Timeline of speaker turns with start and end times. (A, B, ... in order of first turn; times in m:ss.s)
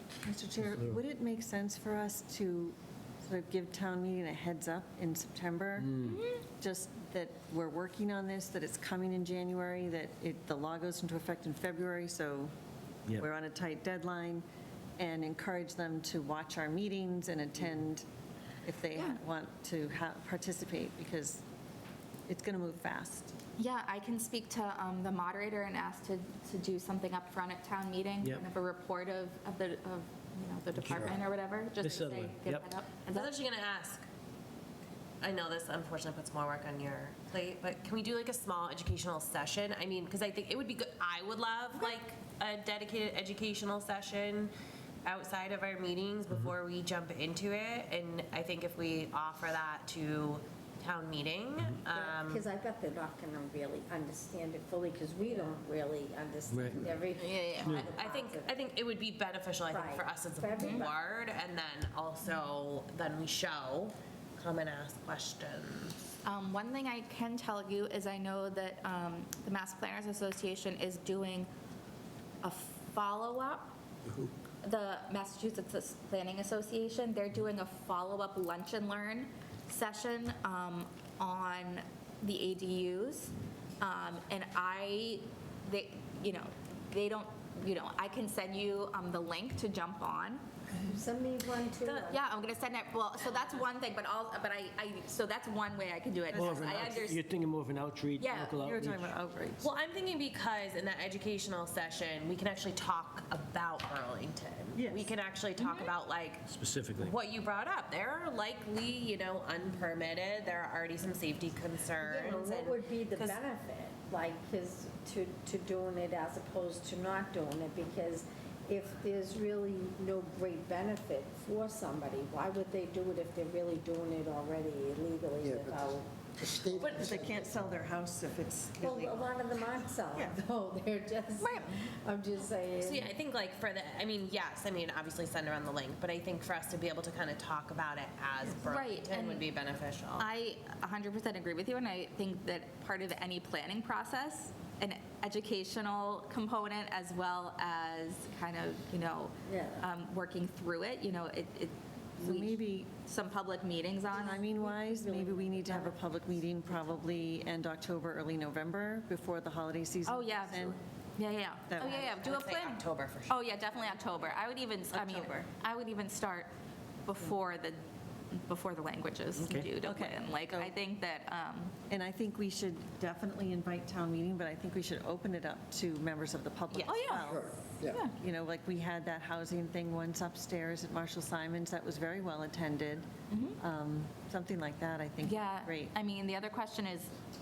0:00.2-0:12.5 A
0:00.6-0:01.0 B
0:05.8-0:06.2 B
0:06.0-0:06.4 C
0:13.2-0:14.4 A
0:15.0-0:18.1 A
0:18.6-0:21.4 A
0:22.3-0:23.3 A
0:23.6-0:33.3 C
0:30.8-0:31.2 D
0:31.8-0:32.7 B
0:33.1-0:34.0 E
0:35.2-0:44.5 E
0:45.0-0:52.5 E
0:51.9-0:58.6 F
0:56.5-0:56.9 B
0:57.2-0:57.9 C
0:57.7-1:06.0 E
0:59.7-1:01.0 F
1:00.6-1:00.9 C
1:06.2-1:11.5 C
1:12.4-1:13.7 C
1:14.6-1:30.4 C
1:30.8-1:32.2 F
1:31.8-1:32.2 E
1:32.1-1:37.2 C
1:36.3-1:36.7 A
1:36.4-1:39.2 B
1:38.2-1:38.6 C
1:38.6-1:39.7 A
1:39.6-1:46.4 E
1:44.8-1:45.1 A
1:45.6-1:45.9 C
1:46.5-1:47.2 B
1:47.0-1:53.4 E
1:52.0-2:06.1 F
2:05.4-2:07.6 D
2:06.8-2:07.1 E
2:06.8-2:09.3 A
2:08.8-2:13.1 F
2:10.1-2:10.4 A
2:11.4-2:11.8 C
2:12.8-2:20.3 E
2:18.7-2:19.4 C
2:20.2-2:34.5 C
2:29.5-2:29.9 F
2:32.2-2:32.9 A
2:34.1-2:40.8 A
2:34.5-2:36.3 F
2:40.0-2:46.5 C
2:41.7-2:42.0 A
2:41.8-2:44.4 E
2:44.9-2:45.5 A
2:47.1-2:47.8 C
2:48.3-2:51.7 C
2:49.4-2:49.7 B
2:49.8-2:50.8 A
2:51.9-2:57.5 A
2:56.8-2:58.1 C
2:57.2-2:58.0 D
2:58.1-3:05.9 A
3:03.3-3:03.6 C
3:05.2-3:07.1 C